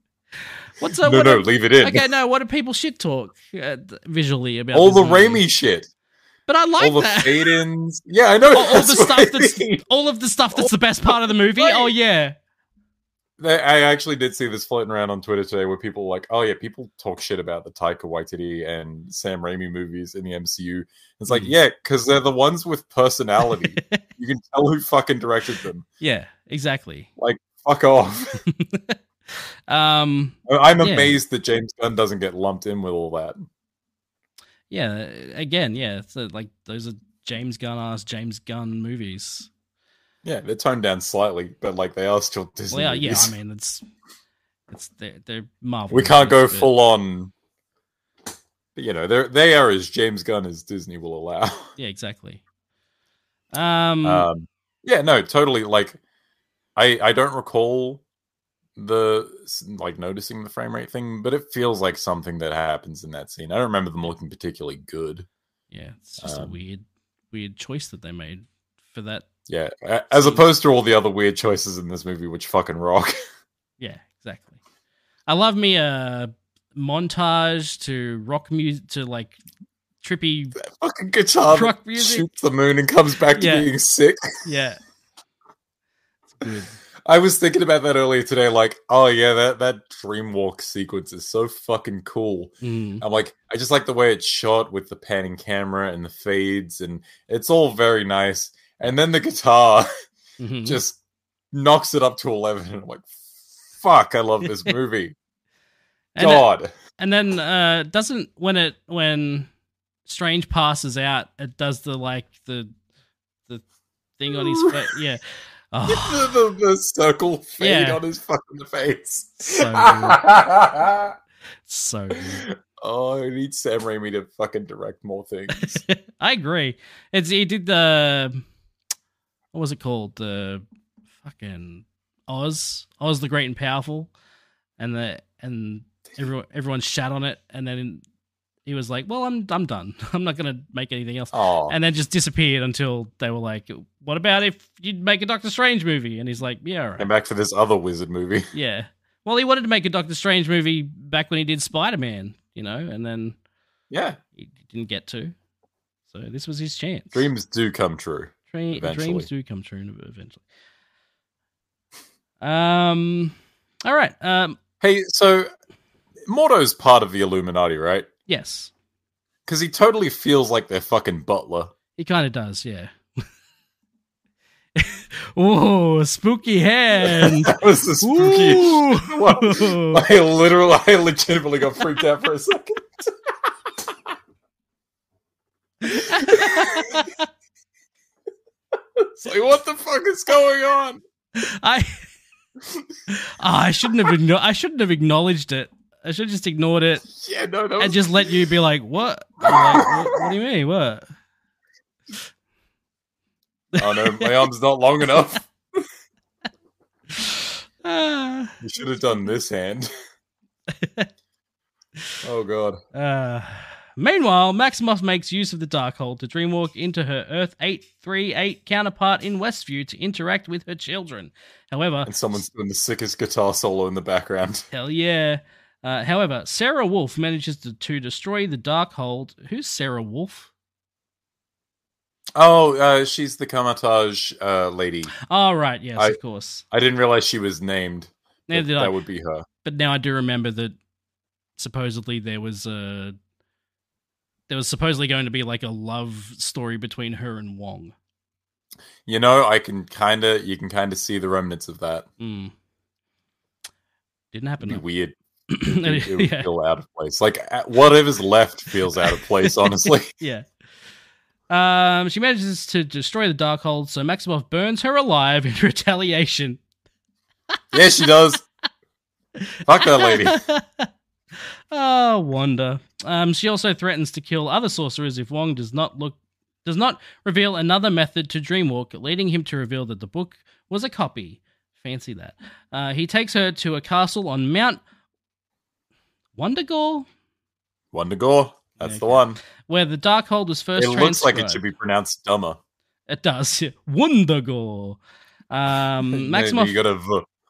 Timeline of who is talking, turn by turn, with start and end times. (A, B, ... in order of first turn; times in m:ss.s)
0:00.8-0:05.4 A
0:00.9-0:02.1 B
0:04.7-0:05.9 B
0:06.5-0:07.6 A
0:06.8-0:09.8 B
0:08.5-0:12.3 A
0:10.5-0:11.9 B
0:13.4-0:25.8 B
0:26.0-0:27.1 A
0:27.2-0:28.4 B
0:28.4-0:31.2 A
0:30.5-0:33.4 B
0:34.7-0:39.5 A
0:40.2-0:43.4 B
0:42.7-0:43.8 A
0:44.7-0:46.7 A
0:45.9-0:47.3 B
0:48.8-0:51.7 B
0:51.8-0:52.4 A
0:53.5-0:54.3 A
0:54.0-0:56.0 B
0:56.8-0:58.0 B
0:58.8-1:05.3 B
1:05.7-1:09.2 A
1:06.2-1:06.6 B
1:09.5-1:13.2 B
1:10.1-1:10.4 A
1:13.8-1:14.6 A
1:15.3-1:19.4 A
1:20.0-1:20.6 A
1:20.7-1:24.2 B
1:21.5-1:22.2 A
1:23.3-1:23.7 A
1:24.4-1:24.8 A
1:26.3-1:26.8 A
1:27.0-1:39.9 B
1:32.6-1:33.0 A
1:40.4-1:40.8 A
1:40.6-1:41.0 B
1:41.5-1:43.1 B
1:43.7-1:45.1 B
1:46.1-1:46.5 A
1:46.2-1:46.7 B
1:47.0-1:49.5 A
1:50.0-1:52.7 A
1:54.2-1:55.2 A
1:54.3-1:54.9 B
1:55.7-1:56.3 A
1:55.9-2:01.1 B
1:57.6-1:58.0 A
1:59.5-2:00.2 A
2:01.6-2:02.4 A
2:02.1-2:05.8 B
2:05.5-2:08.4 A
2:09.5-2:10.6 A
2:11.2-2:14.1 A
2:14.8-2:18.0 A
2:18.6-2:27.1 A
2:21.3-2:21.8 B
2:27.0-2:28.5 B
2:28.5-2:33.4 A
2:33.9-2:34.2 B
2:34.4-2:35.3 A
2:36.1-2:37.2 A
2:37.1-2:39.3 B
2:38.5-2:40.4 A
2:42.4-2:44.6 A
2:44.8-2:45.5 B
2:46.2-2:48.1 B
2:48.3-2:48.7 A
2:49.5-2:51.7 B
2:52.0-2:53.2 A
2:54.8-3:00.0 A
2:57.0-3:03.1 B
3:05.8-3:07.2 A
3:05.8-3:07.0 B
3:09.0-3:11.0 B
3:11.4-3:12.0 A
3:13.1-3:17.1 A
3:13.9-3:14.1 B
3:17.1-3:18.4 B
3:17.8-3:21.0 A
3:19.4-3:20.3 B
3:23.8-3:24.4 A
3:23.8-3:25.8 B
3:27.1-3:28.6 A
3:28.6-3:29.9 B
3:30.7-3:31.1 A
3:32.2-3:32.8 B
3:32.9-3:42.1 A
3:42.0-3:44.7 B
3:44.7-3:50.5 A
3:52.4-3:55.1 B
3:55.3-3:56.6 A
3:56.7-3:59.4 B
3:58.5-3:58.9 A
3:59.6-4:00.7 A
4:01.6-4:03.2 A
4:04.5-4:07.9 A
4:09.0-4:12.1 B
4:12.2-4:12.5 A
4:14.3-4:14.8 A
4:14.6-4:20.1 B
4:15.5-4:16.5 A
4:19.0-4:20.4 A
4:21.5-4:26.6 A
4:27.7-4:28.4 B
4:29.6-4:30.4 B
4:29.8-4:30.9 A
4:31.7-4:44.8 A
4:46.4-4:47.0 A
4:47.9-4:49.4 B
4:48.8-4:51.6 A
4:50.8-4:52.6 B
4:53.1-4:56.8 A
4:56.1-4:57.3 B